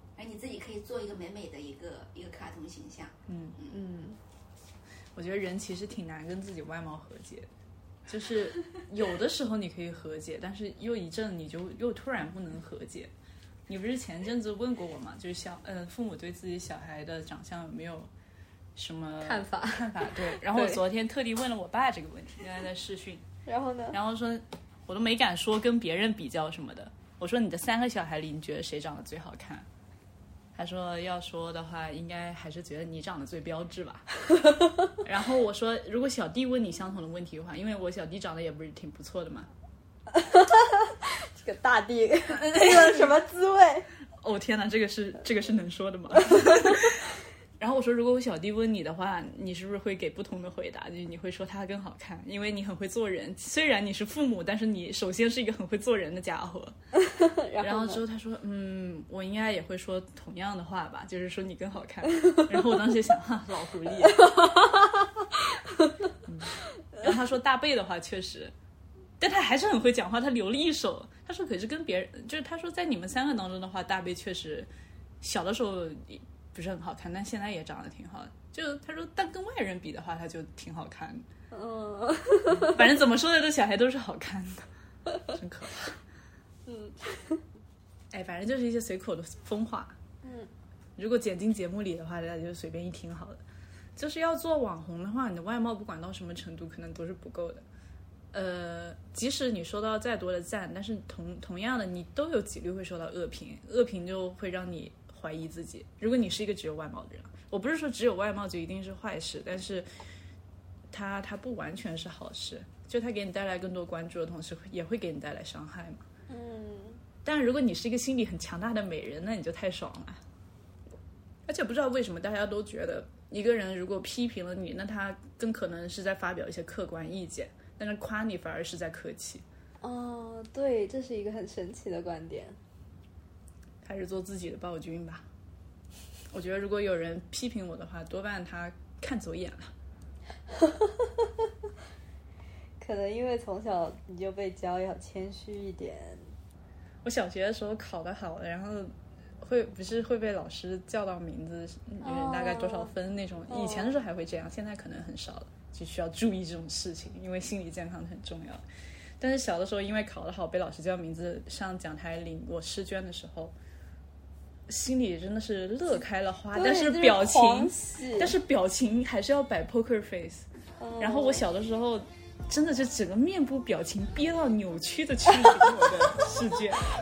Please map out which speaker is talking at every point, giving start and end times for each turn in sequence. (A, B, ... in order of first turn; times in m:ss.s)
0:00.2-0:03.8 A
0:03.3-0:03.6 B
0:03.7-0:04.2 C
0:05.2-0:07.5 B
0:08.1-0:13.1 B
0:13.7-0:18.1 B
0:18.8-0:23.2 B
0:19.2-0:20.8 C
0:23.5-0:24.0 C
0:23.9-0:29.7 B
0:30.6-0:34.1 B
0:34.3-0:35.0 C
0:35.0-0:39.5 B
0:40.1-0:43.9 C
0:42.3-0:43.1 B
0:44.2-0:56.8 B
0:46.3-0:46.6 C
0:57.0-0:58.0 C
0:57.6-1:04.3 B
1:04.0-1:06.0 C
1:06.2-1:08.5 B
1:09.2-1:14.7 B
1:15.2-1:21.2 B
1:21.5-1:22.9 C
1:22.5-1:24.7 B
1:25.3-1:26.0 B
1:26.7-1:27.4 C
1:28.1-1:30.0 B
1:30.2-1:30.5 C
1:31.0-1:33.4 B
1:34.0-1:37.6 B
1:38.3-1:49.9 B
1:50.9-1:56.0 B
1:56.3-1:57.0 C
1:57.2-2:00.2 B
2:01.5-2:09.4 B
2:09.8-2:12.6 C
2:13.8-2:15.3 B
2:16.3-2:19.7 B
2:20.5-2:21.5 C
2:22.8-2:26.3 C
2:27.0-2:38.6 B
2:32.0-2:32.9 C
2:33.5-2:34.0 C
2:39.2-2:43.5 B
2:44.7-2:50.5 B
2:46.5-2:48.4 C
2:50.8-2:51.5 C
2:51.0-2:56.9 B